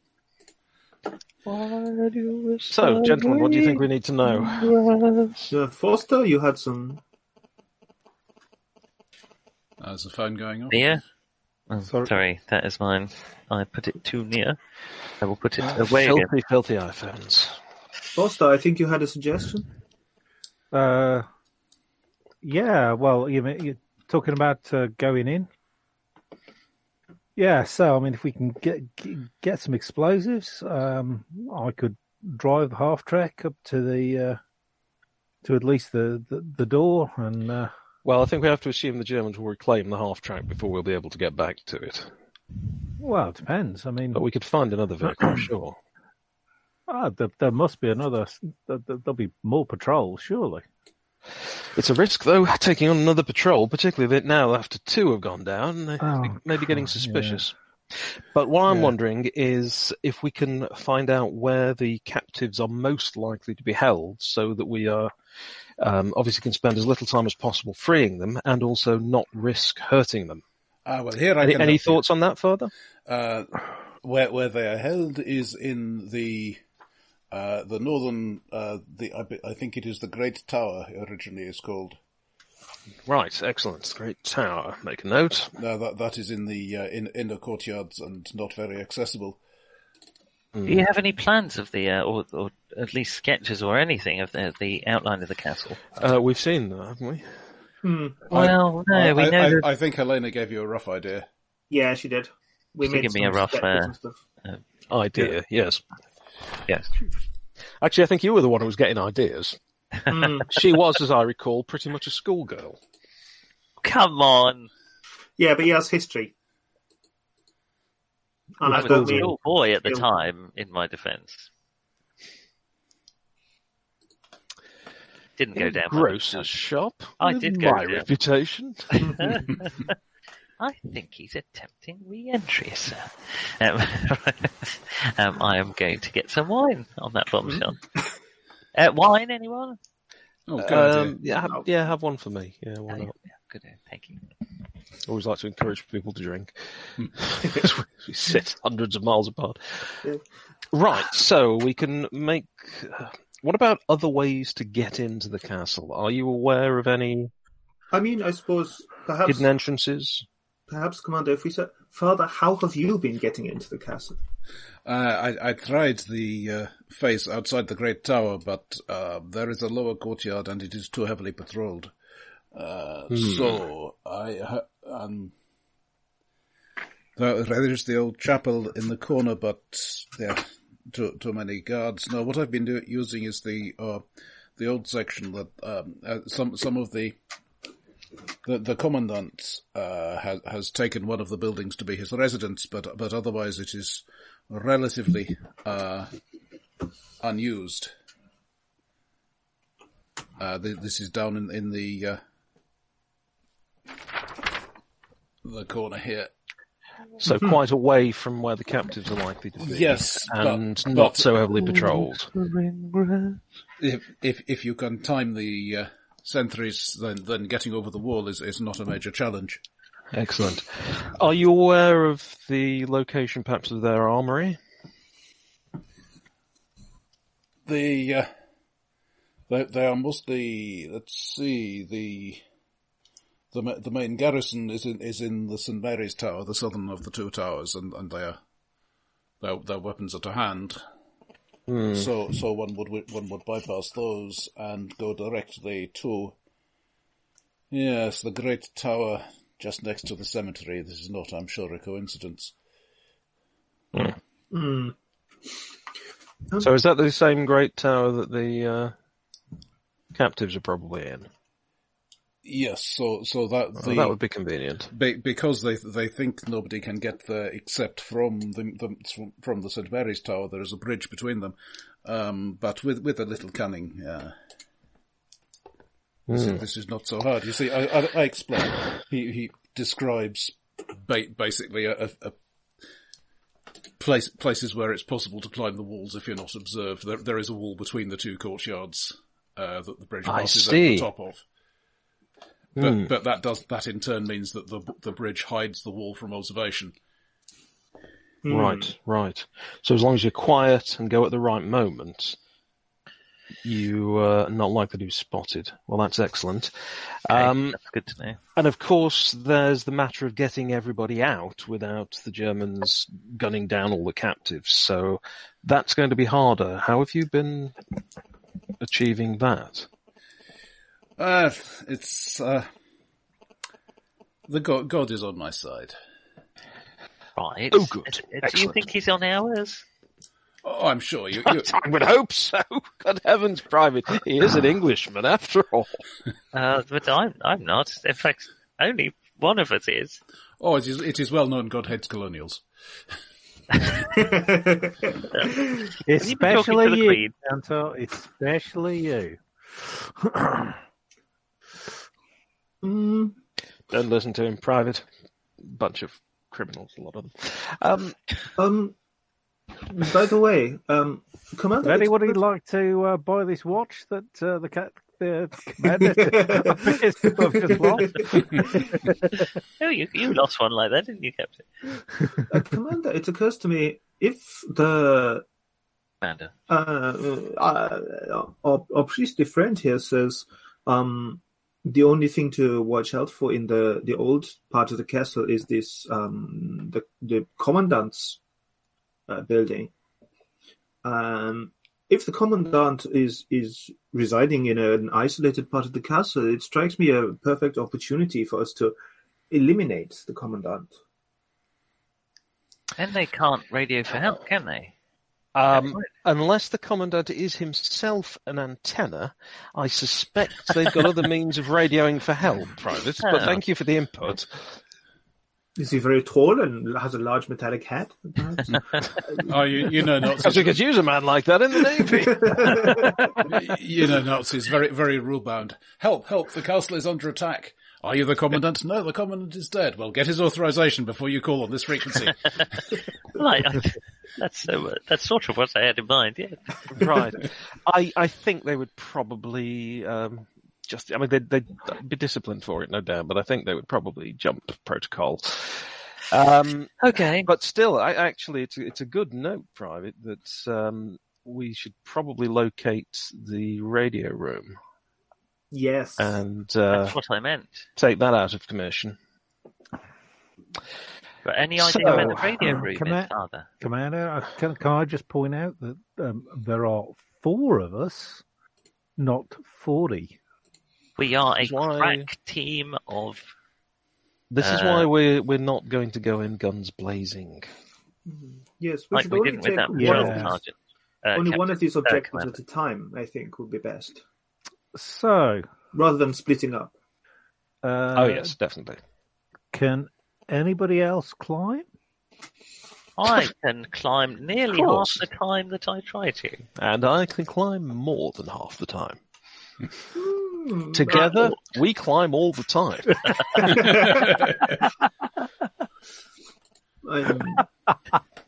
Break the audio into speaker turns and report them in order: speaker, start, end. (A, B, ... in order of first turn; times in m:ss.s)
0:01.4-0:05.4 A
0:02.7-0:04.8 B
0:05.5-0:07.0 C
0:09.8-0:11.0 D
0:10.7-0:11.0 A
0:11.7-0:14.6 A
0:15.2-0:16.3 A
0:15.6-0:17.6 B
0:18.2-0:19.7 C
0:20.7-0:21.2 E
0:22.4-0:25.5 E
0:27.4-0:34.4 E
0:35.4-0:37.7 E
0:38.0-0:42.1 B
0:43.0-0:44.2 E
0:44.1-0:45.8 B
0:46.9-0:50.6 E
0:51.7-1:05.1 B
0:56.0-0:57.4 E
0:58.7-0:58.9 E
1:05.8-1:10.4 B
1:10.8-1:12.0 D
1:11.4-1:12.7 B
1:13.1-1:16.6 D
1:17.3-1:22.0 D
1:23.0-1:25.5 B
1:25.6-1:29.4 D
1:30.5-1:30.8 B
1:30.6-1:35.8 A
1:36.0-1:37.4 B
1:37.8-1:38.3 C
1:38.3-1:39.6 A
1:38.3-1:41.3 D
1:41.7-1:44.2 C
1:42.8-1:43.9 A
1:44.9-1:45.8 B
1:47.8-1:49.6 B
1:50.1-1:50.6 C
1:50.5-1:52.8 B
1:53.8-1:54.7 A
1:55.4-1:56.3 C
1:58.6-2:00.0 C
1:58.6-1:59.3 E
1:58.7-2:01.5 A
2:05.4-2:06.5 A
2:05.6-2:09.3 B
2:07.2-2:08.0 A
2:09.0-2:09.4 C
2:09.2-2:09.9 A
2:10.6-2:17.8 A
2:18.7-2:19.8 A
2:20.5-2:21.2 D
2:20.6-2:23.1 B
2:22.9-2:24.2 A
2:25.0-2:30.0 B
2:30.7-2:37.3 B
2:37.9-2:39.5 C
2:39.2-2:40.2 B
2:40.7-2:44.2 C
2:44.8-2:51.9 D
2:52.5-2:55.3 D
2:53.1-2:53.6 B
2:57.2-3:04.0 D
3:04.6-3:07.2 D
3:08.4-3:16.1 D
3:17.2-3:17.9 D
3:20.4-3:22.2 D
3:25.4-3:26.3 D
3:27.2-3:32.3 B
3:29.6-3:31.5 D
3:31.6-3:33.4 A
3:33.8-3:39.6 D
3:40.1-3:44.6 B
3:47.6-3:48.3 D
3:49.5-3:52.4 D
3:53.5-3:58.4 D
3:59.4-4:00.8 D
4:01.7-4:02.1 B
4:01.9-4:06.4 D
4:07.7-4:12.5 D
4:14.5-4:14.9 C
4:16.6-4:18.9 B
4:20.1-4:21.3 B
4:22.4-4:24.2 D
4:23.8-4:24.9 B
4:24.9-4:34.3 D
4:36.3-4:36.6 B
4:36.3-4:42.4 D
4:44.0-4:51.4 D
4:50.2-4:51.1 B
4:52.8-4:53.1 B
4:52.8-4:56.9 D
4:58.4-4:58.9 C
4:58.5-5:02.4 B
5:03.6-5:07.8 B
5:07.3-5:08.4 A
5:08.6-5:17.8 B
5:18.8-5:19.9 B
5:21.2-5:22.7 D
5:24.5-5:26.0 D
5:27.4-5:29.8 A
5:27.7-5:28.8 B
5:30.6-5:31.7 D
5:31.4-5:35.9 B
5:36.5-5:40.2 A
5:40.6-5:42.6 D
5:44.1-5:45.9 C
5:46.0-5:50.8 E
5:46.2-5:47.3 A
5:52.8-5:53.4 C
5:53.9-5:55.0 B
5:55.6-5:58.2 B
5:58.6-5:58.9 C
5:59.9-6:02.3 C
6:01.8-6:09.4 E
6:06.0-6:08.9 C
6:09.8-6:11.6 A
6:12.5-6:15.4 C
6:16.2-6:16.5 A
6:16.7-6:28.4 C
6:29.3-6:29.9 C
6:31.0-6:39.0 C
6:39.5-6:40.9 C
6:43.0-6:44.9 A
6:45.5-6:54.7 B
6:45.7-6:46.0 A
6:53.2-6:53.6 A
6:55.8-6:58.8 C
6:59.3-7:00.8 D
7:00.4-7:03.2 B
7:02.2-7:03.4 C
7:03.4-7:12.8 D
7:13.3-7:17.1 A
7:16.9-7:34.8 B
7:27.0-7:27.5 A
7:35.7-7:36.4 C
7:36.2-7:37.2 B
7:36.9-7:37.8 A
7:38.0-7:39.2 B
7:41.4-7:43.6 A
7:41.8-7:42.7 B
7:42.0-7:48.4 E
7:49.2-7:50.4 E
7:51.2-7:53.5 A
7:51.6-7:52.3 B
7:54.5-7:57.7 B
7:54.6-7:55.1 A
7:58.3-8:00.6 C
7:59.1-8:02.5 A
7:59.9-8:00.6 E
8:01.3-8:04.2 C
8:04.9-8:05.7 E
8:05.9-8:06.9 C
8:07.8-8:08.5 E
8:08.1-8:09.0 B
8:09.7-8:11.8 E
8:13.2-8:16.6 A
8:14.7-8:15.2 B
8:16.8-8:19.2 B
8:20.1-8:21.5 C
8:20.9-8:23.8 B
8:23.6-8:24.3 C
8:23.7-8:24.7 D
8:27.0-8:27.7 C